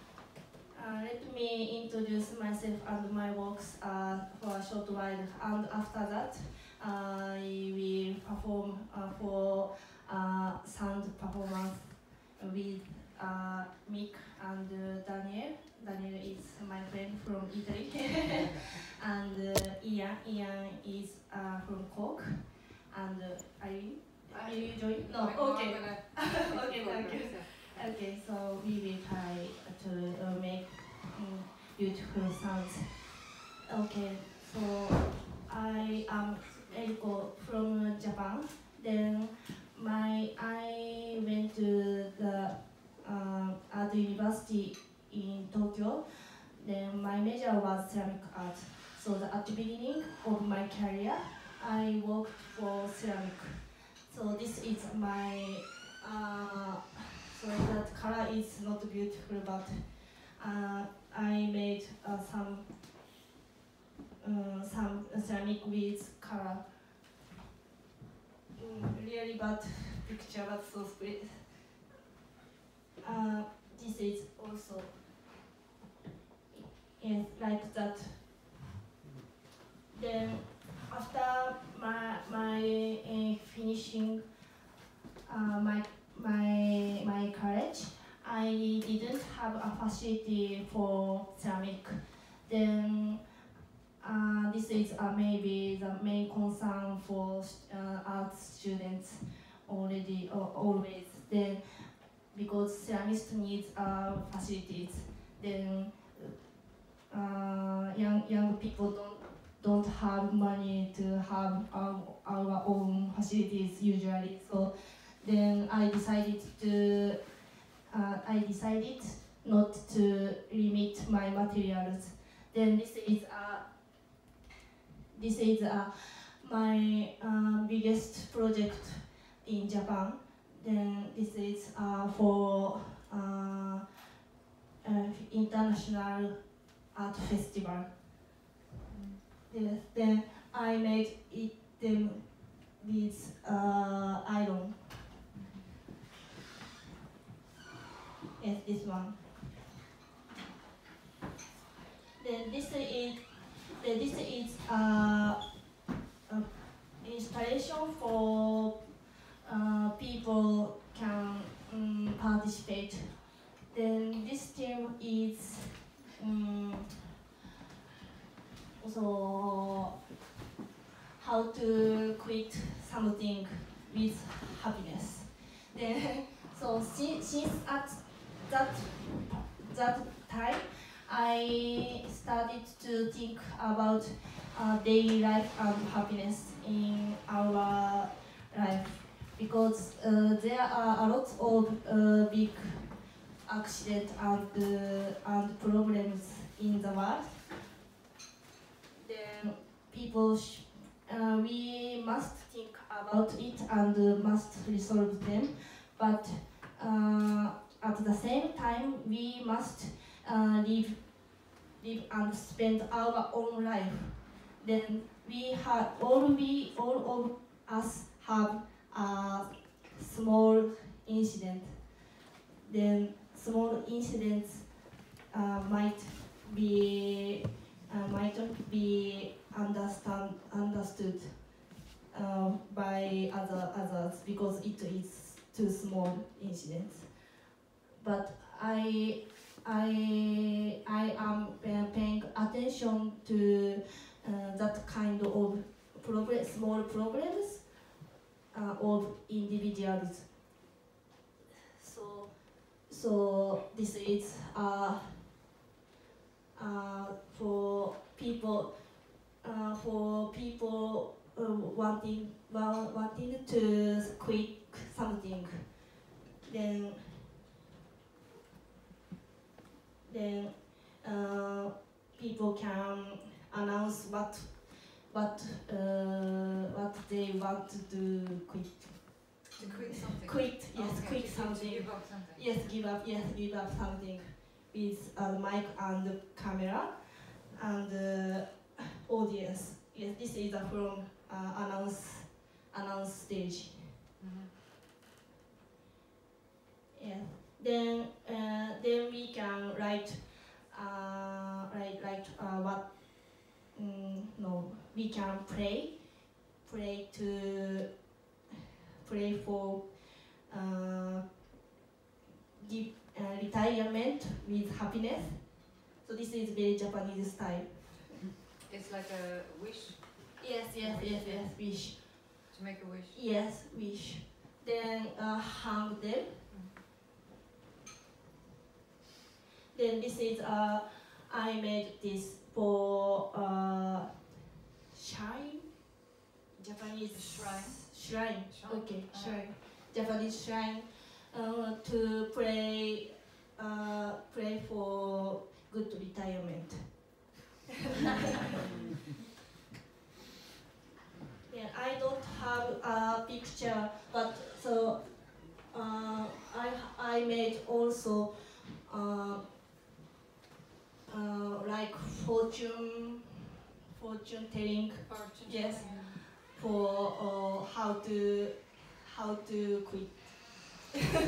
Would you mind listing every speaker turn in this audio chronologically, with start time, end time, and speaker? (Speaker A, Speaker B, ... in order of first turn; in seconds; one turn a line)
Speaker A: 0.7-62.7
Speaker B: 24.3-27.6
Speaker A: 64.2-66.7
Speaker A: 68.5-71.8
Speaker A: 73.0-75.1
Speaker A: 76.5-78.4
Speaker A: 79.9-84.3
Speaker A: 85.2-93.4
Speaker A: 94.0-106.5
Speaker A: 107.1-123.9
Speaker A: 125.1-134.1
Speaker A: 134.8-138.0
Speaker B: 138.9-139.2
Speaker A: 139.4-145.0
Speaker B: 145.3-145.7
Speaker A: 148.4-149.2
Speaker A: 152.2-155.6
Speaker A: 156.2-167.2
Speaker A: 168.8-170.0
Speaker A: 171.1-197.5
Speaker A: 199.0-247.9
Speaker A: 248.5-250.4
Speaker A: 251.8-255.4
Speaker A: 256.5-267.4
Speaker A: 270.0-294.0
Speaker B: 279.6-282.7
Speaker B: 294.2-294.5
Speaker A: 296.9-308.1
Speaker A: 309.0-311.5
Speaker A: 312.5-318.2
Speaker B: 318.6-323.2
Speaker A: 320.4-322.5
Speaker A: 323.1-326.4
Speaker B: 326.5-326.8
Speaker A: 329.7-335.9
Speaker A: 336.5-347.3
Speaker B: 337.1-339.5
Speaker A: 347.9-348.6
Speaker A: 351.4-359.6
Speaker A: 361.1-363.4
Speaker A: 363.9-370.9
Speaker B: 365.0-366.1